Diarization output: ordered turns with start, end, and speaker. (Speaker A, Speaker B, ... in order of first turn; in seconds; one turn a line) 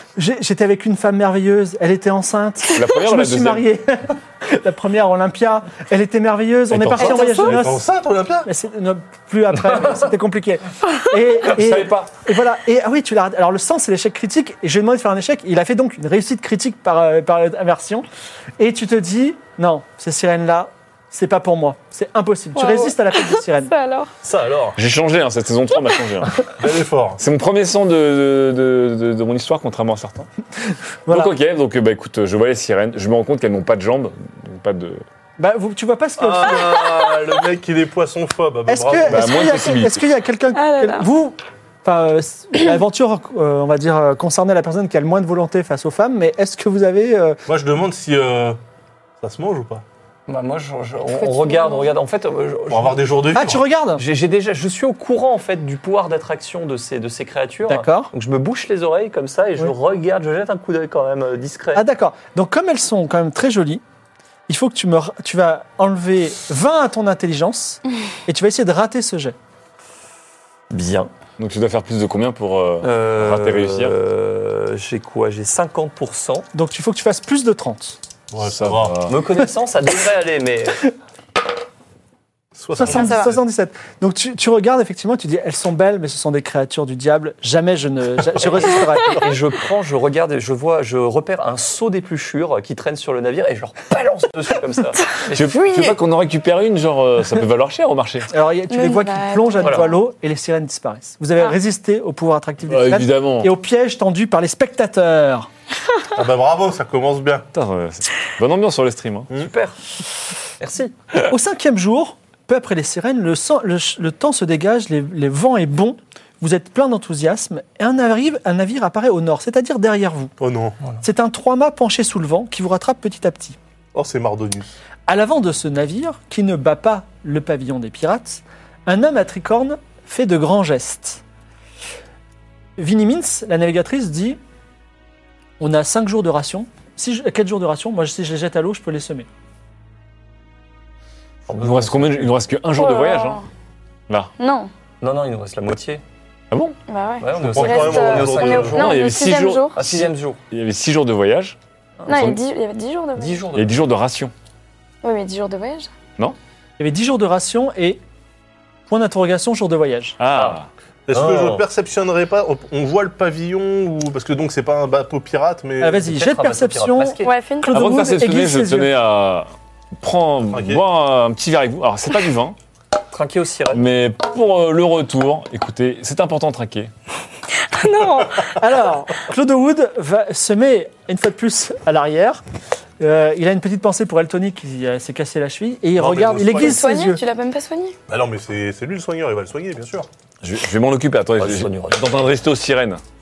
Speaker A: 0.2-7.9
Speaker B: 2.7-3.6
Speaker B: 6.7-7.2
Speaker C: 7.2-8.5
Speaker A: 8.4-18.1
Speaker B: 11.4-12.1
Speaker A: 18.6-23.7
Speaker D: 22.5-24.1
Speaker C: 24.2-24.8
Speaker B: 24.8-26.4
Speaker C: 26.6-27.2
Speaker B: 27.2-30.3
Speaker A: 31.1-31.3
Speaker B: 31.1-35.0
Speaker A: 35.4-37.1
Speaker C: 36.2-39.4
Speaker A: 38.7-47.4
Speaker B: 39.1-40.0
Speaker D: 40.5-41.1
Speaker C: 47.5-48.6
Speaker C: 49.2-49.8
Speaker E: 50.3-53.3
Speaker D: 51.1-51.9
Speaker C: 52.7-53.6
Speaker A: 53.3-54.0
Speaker E: 53.9-61.8
Speaker A: 57.7-58.1
Speaker A: 61.7-63.8
Speaker A: 64.5-69.4
Speaker E: 70.7-71.1
Speaker B: 71.4-73.9
Speaker E: 72.8-76.5
Speaker A: 76.5-78.0
Speaker C: 78.3-79.0
Speaker B: 78.4-79.2
Speaker E: 79.0-80.8
Speaker C: 82.5-83.4
Speaker A: 82.7-89.2
Speaker D: 82.9-83.3
Speaker E: 89.2-96.0
Speaker B: 95.3-98.3
Speaker A: 98.3-105.5
Speaker D: 98.7-100.0
Speaker E: 99.6-99.9
Speaker B: 102.7-103.5
Speaker C: 106.1-107.5
Speaker B: 107.5-109.3
Speaker E: 109.3-109.8
Speaker E: 110.6-110.9
Speaker A: 111.2-120.3
Speaker C: 120.4-120.8
Speaker A: 121.0-123.6
Speaker C: 123.9-124.7
Speaker A: 125.1-131.2
Speaker A: 132.8-134.4
Speaker A: 135.6-139.3
Speaker E: 141.5-142.4
Speaker B: 141.6-143.4
Speaker D: 142.7-143.4
Speaker D: 144.4-144.7
Speaker E: 145.0-146.0
Speaker D: 146.9-149.8
Speaker E: 147.2-149.0
Speaker C: 147.4-148.9
Speaker B: 148.7-151.6
Speaker E: 149.7-150.4
Speaker E: 152.1-152.4
Speaker D: 152.1-153.4
Speaker B: 152.1-152.4
Speaker E: 153.2-153.8
Speaker B: 153.5-154.3
Speaker D: 155.0-155.9
Speaker A: 156.8-158.0
Speaker A: 158.9-160.2
Speaker B: 160.2-160.7
Speaker E: 160.3-160.6
Speaker C: 161.1-166.1
Speaker E: 161.1-161.7
Speaker A: 165.8-168.9
Speaker E: 166.0-167.4
Speaker D: 167.2-167.9
Speaker B: 167.7-169.5
Speaker B: 170.0-172.6
Speaker C: 170.5-170.8
Speaker E: 173.1-173.9
Speaker B: 173.7-176.9
Speaker D: 177.7-178.5
Speaker A: 178.5-182.4
Speaker A: 183.0-187.2
Speaker C: 185.9-186.8
Speaker D: 186.5-187.9
Speaker C: 188.1-190.1
Speaker B: 190.4-193.0
Speaker E: 191.3-192.2